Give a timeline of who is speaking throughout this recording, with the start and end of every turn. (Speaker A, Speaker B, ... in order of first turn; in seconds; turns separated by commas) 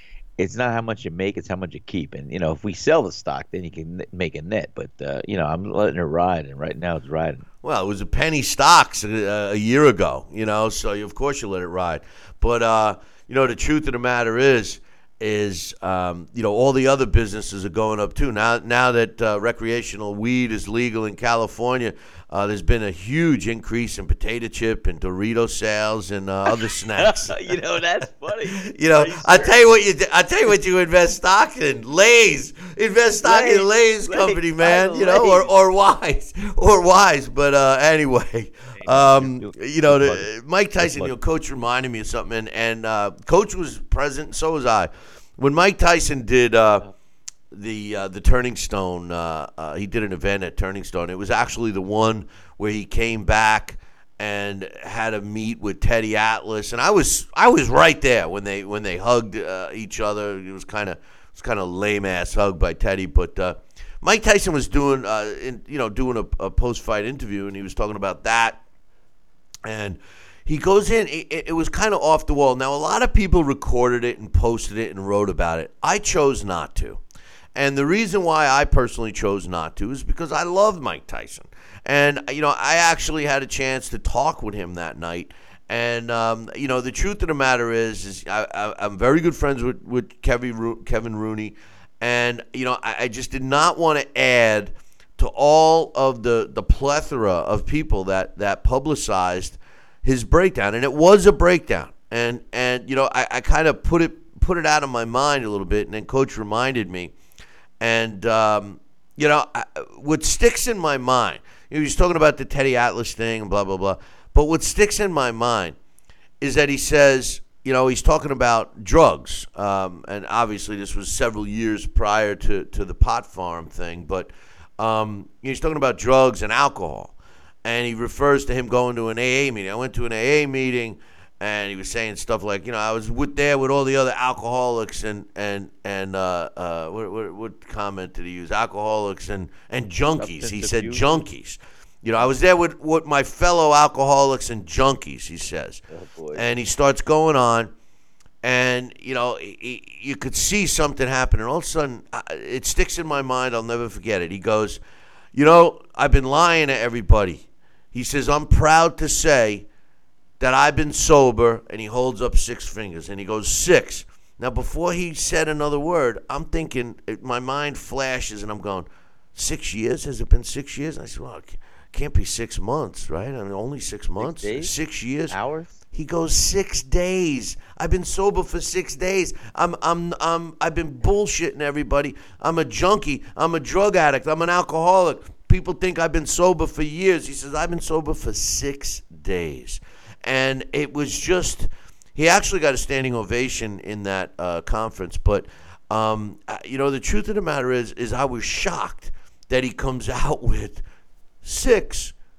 Speaker A: 0.4-7.5, Speaker B: 7.6-27.5, Speaker A: 27.0-29.6, Speaker B: 28.6-46.9, Speaker A: 33.2-35.5, Speaker A: 38.8-41.1, Speaker B: 47.5-68.6, Speaker B: 69.7-77.0, Speaker B: 77.5-107.1, Speaker B: 107.8-115.8, Speaker B: 116.4-145.8, Speaker A: 140.2-141.3, Speaker A: 145.9-146.4, Speaker B: 146.3-147.7, Speaker B: 148.4-154.8, Speaker B: 155.3-159.7, Speaker B: 160.4-175.4, Speaker A: 174.2-174.7, Speaker A: 175.3-175.7, Speaker B: 175.9-200.8, Speaker B: 201.4-202.1